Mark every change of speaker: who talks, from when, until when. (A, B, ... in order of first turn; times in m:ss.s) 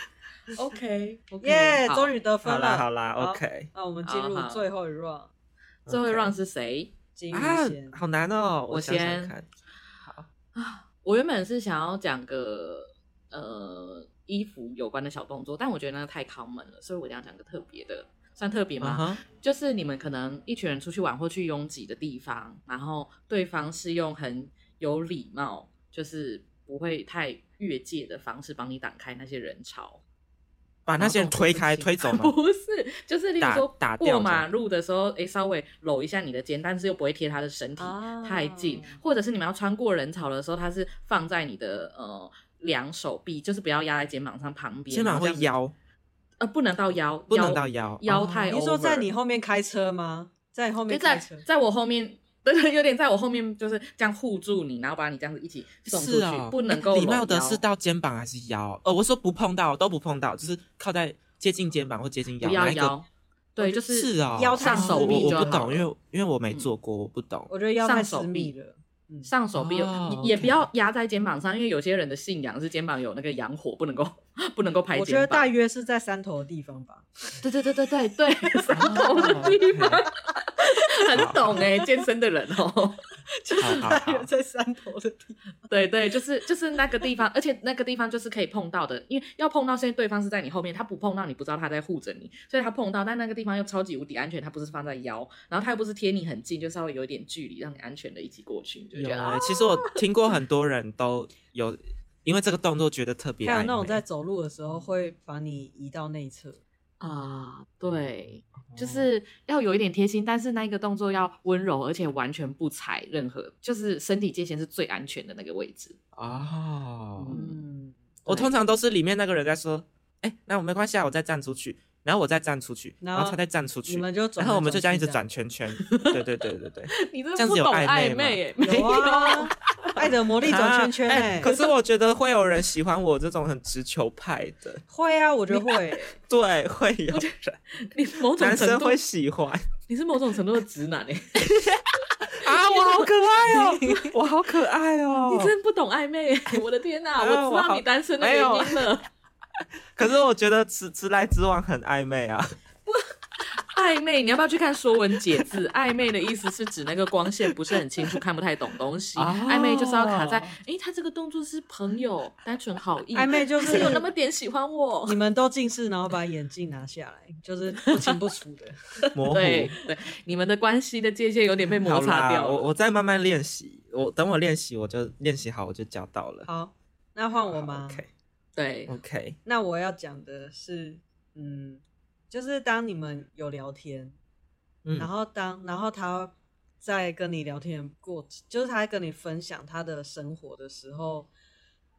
0:00.5-0:02.1 A
0:01.4-0:05.3 B
0:02.4-0:03.7 C
0:04.0-0:04.7 A
0:05.9-0:06.3 C
0:05.9-0:06.9 A
0:07.2-0:08.0 B
0:07.3-0:09.5 C
0:08.7-0:09.3 A
0:10.5-0:30.0 A
0:18.8-0:19.2 C
0:30.9-0:32.3 C
0:31.0-0:45.5 A
0:33.4-0:34.5 C
0:37.8-0:39.0 B
0:44.9-0:45.7 C
0:46.4-0:49.0 A
0:47.3-0:48.6 C
0:48.5-0:51.4 B
0:50.9-0:57.6 A
0:55.9-1:03.0 C
1:02.4-1:03.0 A
1:03.6-1:05.7 A
1:03.6-1:07.5 C
1:04.3-1:05.9 B
1:07.5-1:09.3 B
1:07.8-1:08.5 A
1:09.2-1:15.5 A
1:09.6-1:10.6 C
1:14.9-1:17.4 B
1:17.4-1:23.0 A
1:18.5-1:19.7 B
1:18.7-1:20.1 C
1:21.1-1:21.5 C
1:23.3-1:25.4 B
1:23.6-1:24.3 C
1:25.7-1:40.0 A
1:39.0-1:44.0 C
1:43.4-1:46.6 B
1:47.0-1:56.0 A
1:48.7-1:49.1 C
1:56.2-1:57.4 C
1:57.2-1:57.6 A
1:57.3-1:58.5 B
1:58.3-2:08.9 C
2:03.0-2:05.2 B
2:05.8-2:06.2 A
2:06.9-2:10.0 A
2:08.6-2:11.5 B
2:10.4-2:14.8 C
2:14.9-2:16.2 B
2:16.3-2:17.6 C
2:17.1-2:19.0 A
2:18.4-2:19.7 C
2:19.9-2:21.8 A
2:22.4-2:24.1 A
2:22.4-2:25.5 C
2:25.3-2:29.0 A
2:27.2-2:28.9 C
2:30.0-2:32.6 C
2:32.9-2:45.2 A
2:39.2-2:40.5 C
2:43.1-2:44.1 B
2:45.1-2:48.8 B
2:47.8-2:48.2 A
2:49.1-2:49.8 C
2:49.3-2:52.6 A
2:51.8-2:56.5 C
2:56.4-2:58.0 B
2:57.5-2:58.1 C
2:58.6-2:58.9 A
2:58.9-2:59.4 C
2:59.5-3:04.2 B
3:04.8-3:05.1 C
3:05.0-3:11.3 B